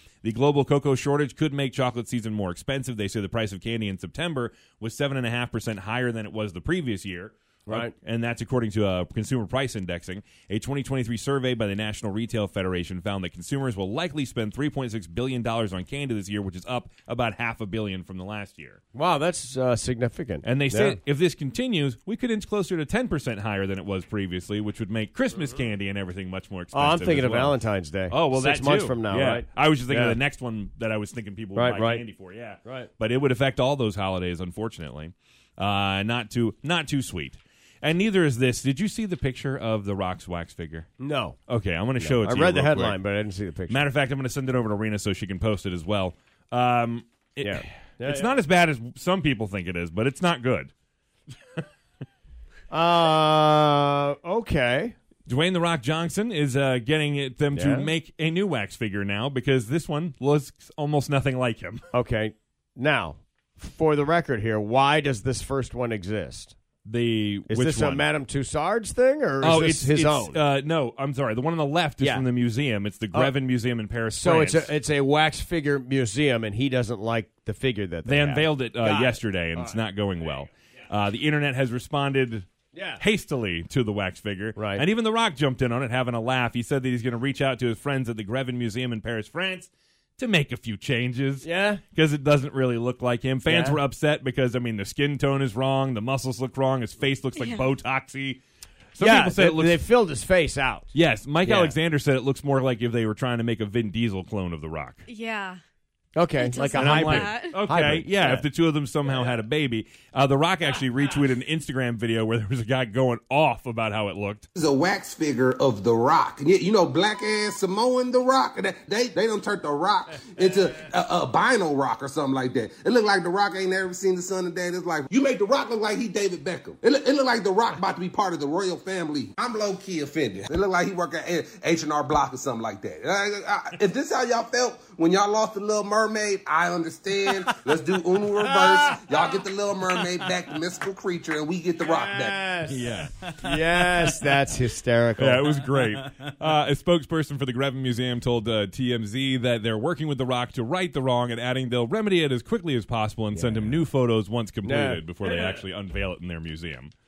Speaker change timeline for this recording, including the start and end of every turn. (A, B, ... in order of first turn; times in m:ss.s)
0:00.2-0:18.8 A
0:07.7-0:07.9 B
0:18.9-0:21.0 B
0:20.4-0:40.9 A
0:26.7-0:30.2 B
0:31.6-0:32.0 B
0:41.0-0:41.4 B
0:41.5-0:43.0 A
0:42.0-0:43.8 B
0:43.7-0:50.7 A
0:47.4-0:48.4 B
0:52.7-0:55.0 B
0:55.3-1:01.8 A
0:57.5-0:57.9 B
1:01.9-1:06.6 B
1:06.8-1:08.0 A
1:07.5-1:10.4 B
1:09.4-1:14.7 A
1:12.0-1:12.3 B
1:14.1-1:19.8 B
1:18.0-1:22.5 A
1:22.7-1:23.0 B
1:23.0-1:38.4 A
1:24.6-1:24.8 B
1:31.4-1:31.8 B
1:33.5-1:33.8 B
1:37.3-1:37.7 C
1:39.0-1:39.8 A
1:39.0-1:40.9 B
1:40.9-1:45.0 A
1:41.4-1:41.8 B
1:45.1-1:45.6 C
1:46.2-1:48.4 B
1:46.4-1:47.6 C
1:46.7-1:54.5 A
1:54.6-2:22.5 D
2:18.4-2:19.3 B
2:21.8-2:22.8 B
2:22.7-2:23.5 A
2:23.4-2:25.5 B
2:25.2-2:36.9 A
2:33.3-2:33.7 B
2:34.6-2:35.6 B